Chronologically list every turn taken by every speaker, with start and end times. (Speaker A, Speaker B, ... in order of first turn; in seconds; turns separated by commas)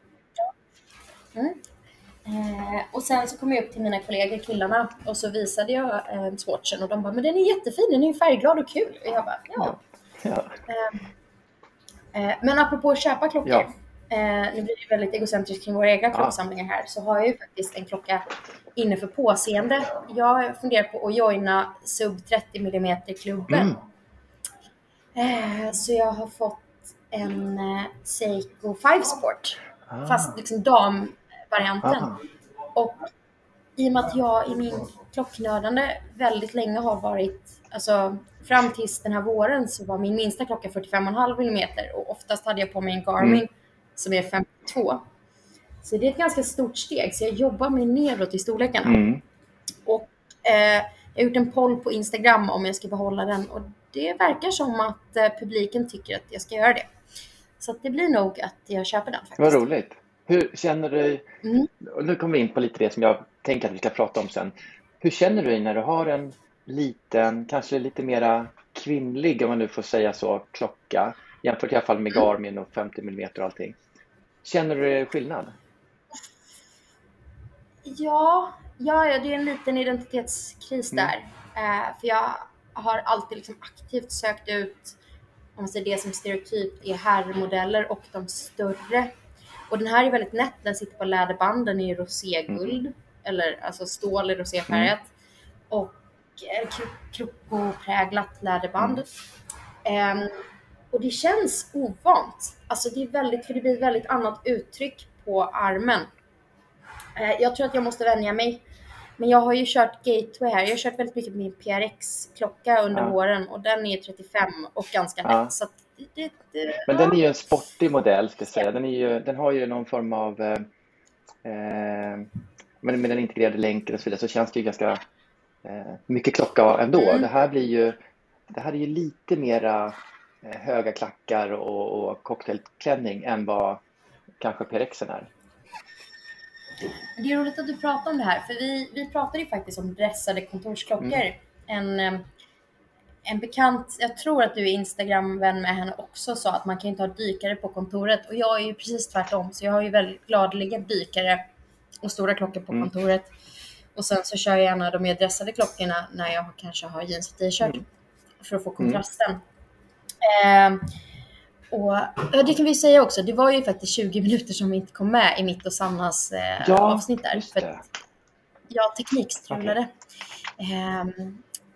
Speaker A: 2.2-9.8, Speaker B: 9.6-10.5, Speaker A: 10.7-11.0, Speaker A: 12.1-18.2, Speaker A: 18.8-23.8, Speaker B: 23.5-23.8, Speaker A: 25.2-32.2, Speaker B: 29.9-30.3, Speaker B: 31.8-32.1, Speaker A: 32.7-33.1, Speaker A: 33.8-45.0, Speaker A: 45.8-49.0, Speaker B: 48.8-49.2, Speaker A: 49.9-56.9, Speaker A: 57.6-59.6, Speaker B: 59.4-61.3, Speaker A: 61.4-61.7, Speaker B: 61.8-73.8, Speaker B: 74.4-75.5, Speaker A: 77.8-85.0, Speaker A: 85.6-89.1, Speaker A: 89.7-95.1, Speaker B: 92.5-92.8, Speaker A: 95.7-99.1, Speaker B: 98.8-99.0, Speaker A: 99.8-106.1, Speaker A: 107.2-108.6, Speaker A: 109.2-117.2, Speaker B: 115.2-115.5, Speaker B: 116.9-120.7, Speaker B: 121.4-122.3, Speaker B: 122.8-125.0, Speaker B: 125.6-128.0, Speaker A: 127.0-127.3, Speaker B: 128.5-133.8, Speaker B: 134.4-135.3, Speaker A: 137.2-142.3, Speaker A: 143.2-151.5, Speaker A: 152.0-153.3, Speaker A: 153.9-157.8, Speaker A: 158.4-159.4, Speaker A: 160.2-160.9, Speaker A: 161.7-167.7, Speaker B: 166.6-167.8, Speaker A: 168.7-169.9, Speaker B: 169.5-169.8, Speaker A: 170.6-171.4